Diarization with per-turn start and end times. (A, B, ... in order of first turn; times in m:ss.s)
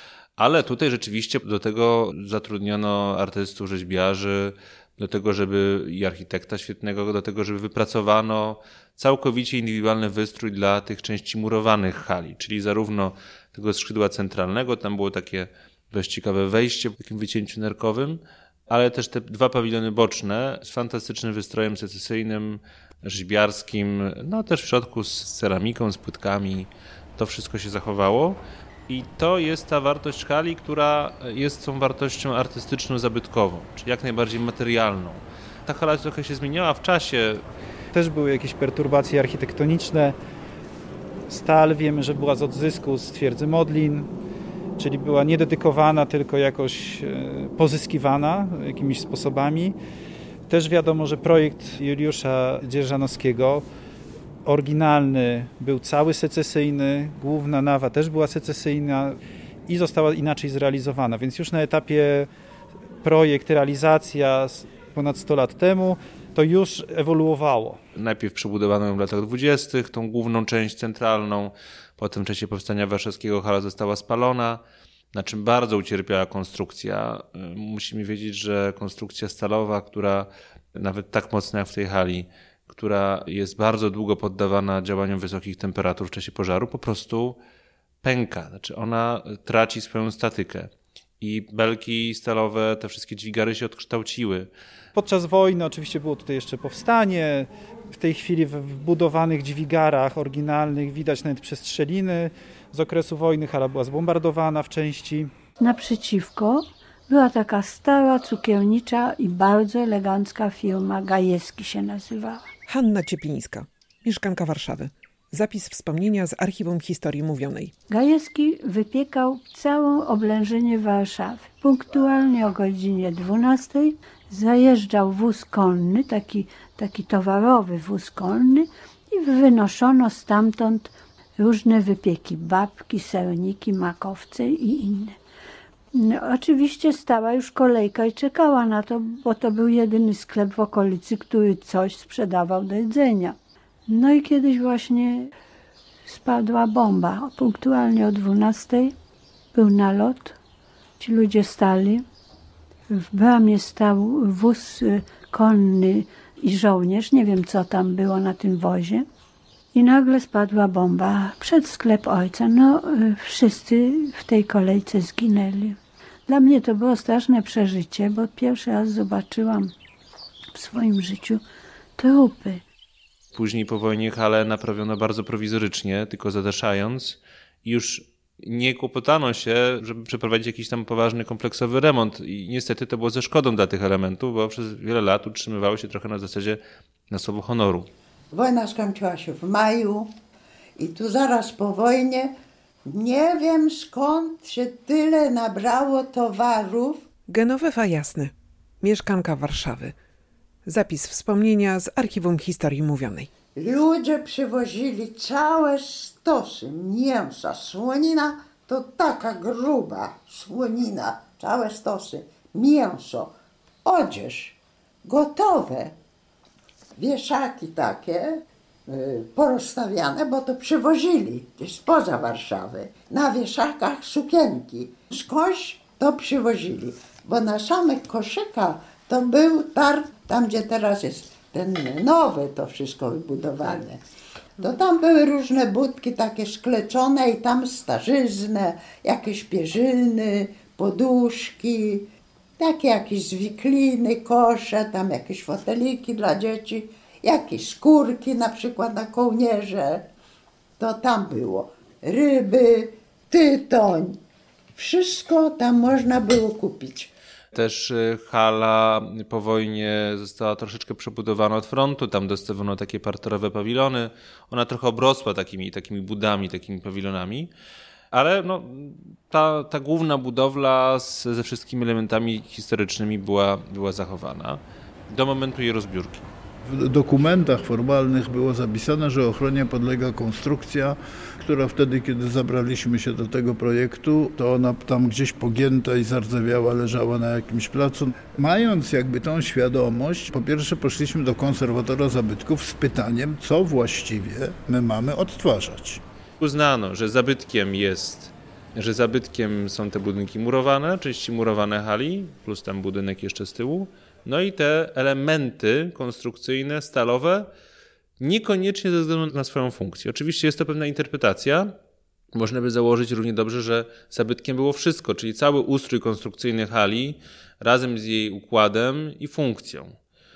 0:00.4-0:37.4 A
0:37.9-0:40.2 B
0:41.3-0:44.1 B
0:44.8-0:49.8 B
0:50.5-0:53.6 B
0:54.5-1:02.3 B
1:03.0-1:07.8 B
1:08.0-1:14.6 A
1:15.1-1:27.4 A
1:28.0-1:34.5 A
1:35.0-1:45.3 B
1:45.6-1:52.5 C
1:52.7-1:57.7 D
1:57.9-2:15.2 C
2:15.9-2:23.4 C
2:23.9-2:25.3 C
2:26.1-2:29.0 C
2:29.5-2:30.4 C
2:31.0-2:32.0 C
2:32.9-2:39.1 C
2:39.7-2:49.7 C
2:50.5-2:51.4 C
2:52.0-2:52.6 C
2:53.4-3:07.9 A
3:08.3-3:10.1 E
3:10.8-3:12.3 E
3:12.9-3:17.0 E
3:17.3-3:20.0 D
3:20.6-3:23.3 D
3:23.5-3:33.3 E
3:33.8-3:36.0 E
3:37.0-3:54.0 E
3:54.6-4:02.1 E
4:02.6-4:10.1 E
4:10.8-4:14.2 E
4:14.8-4:17.1 E
4:17.5-4:27.5 A
4:28.1-4:36.2 A
4:36.6-4:56.0 F
4:56.4-5:07.5 A
5:08.2-5:11.8 A
5:12.3-5:20.0 A